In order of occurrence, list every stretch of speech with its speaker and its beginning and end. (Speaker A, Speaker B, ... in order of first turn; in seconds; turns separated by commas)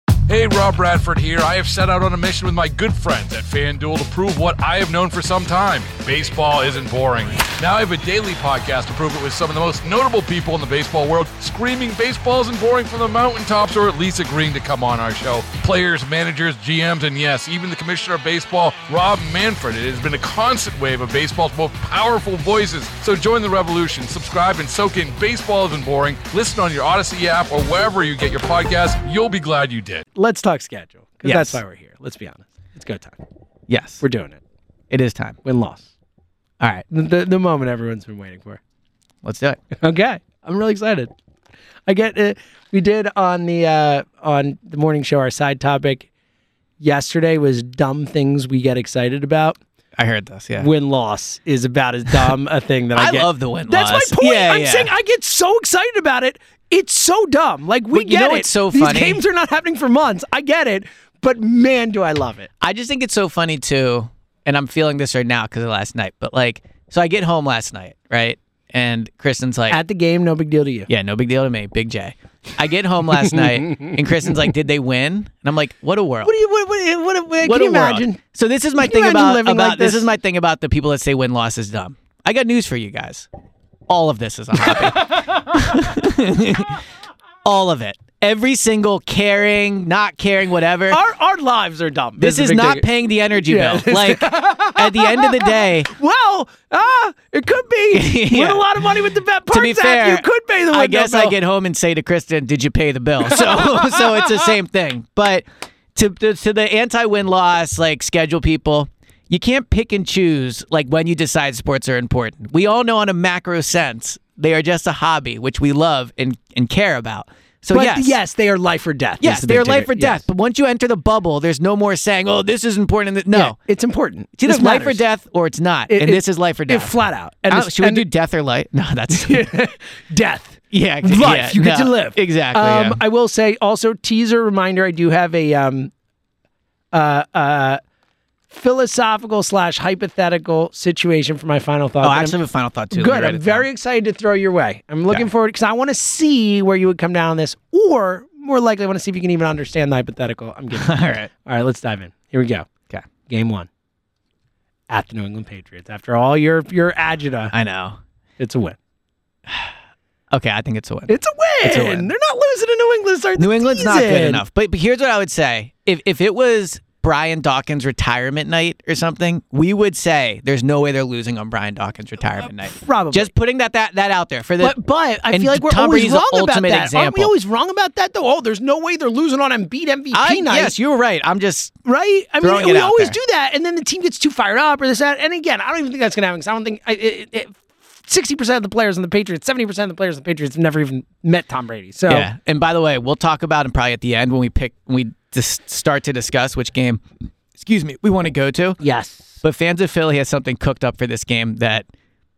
Speaker A: 0.3-30.0, Speaker B: 30.1-33.2, Speaker C: 31.2-31.6, Speaker C: 33.7-34.0, Speaker B: 34.0-34.4, Speaker C: 34.9-35.4, Speaker B: 35.4-35.8, Speaker B: 36.9-38.6, Speaker C: 39.2-39.6, Speaker B: 39.8-41.1, Speaker B: 41.9-46.1, Speaker B: 46.8-49.6, Speaker C: 50.0-50.7, Speaker B: 50.6-62.5, Speaker C: 52.9-54.9, Speaker C: 57.9-59.2, Speaker C: 62.6-69.8, Speaker B: 69.7-70.9, Speaker C: 70.9-76.3, Speaker B: 76.2-78.2, Speaker C: 77.4-83.3, Speaker B: 78.8-80.1, Speaker C: 83.9-86.8, Speaker B: 84.7-85.2, Speaker C: 87.4-91.0, Speaker B: 90.9-92.8, Speaker C: 92.2-95.9, Speaker B: 93.4-101.3, Speaker C: 97.9-98.7, Speaker C: 99.5-105.4, Speaker B: 103.3-104.2, Speaker C: 105.9-118.1, Speaker B: 117.7-120.2, Speaker C: 119.2-123.6, Speaker B: 123.3-125.0, Speaker C: 124.4-127.0, Speaker B: 125.9-128.0, Speaker C: 127.5-129.4, Speaker B: 129.1-135.9, Speaker C: 130.7-133.0, Speaker B: 136.9-137.8, Speaker B: 138.5-142.3, Speaker C: 142.0-143.6, Speaker B: 142.9-152.7, Speaker C: 150.7-151.3, Speaker B: 153.3-153.7, Speaker B: 154.9-157.5, Speaker C: 157.5-158.0, Speaker B: 158.4-158.8, Speaker C: 160.3-162.1, Speaker B: 161.1-164.4, Speaker C: 163.4-174.8, Speaker B: 172.8-173.3, Speaker B: 174.6-180.7, Speaker C: 175.3-177.3, Speaker C: 180.1-181.7, Speaker B: 181.8-192.3, Speaker C: 182.4-183.2, Speaker C: 192.1-197.0, Speaker C: 197.6-198.8, Speaker B: 198.8-199.2, Speaker C: 199.4-201.8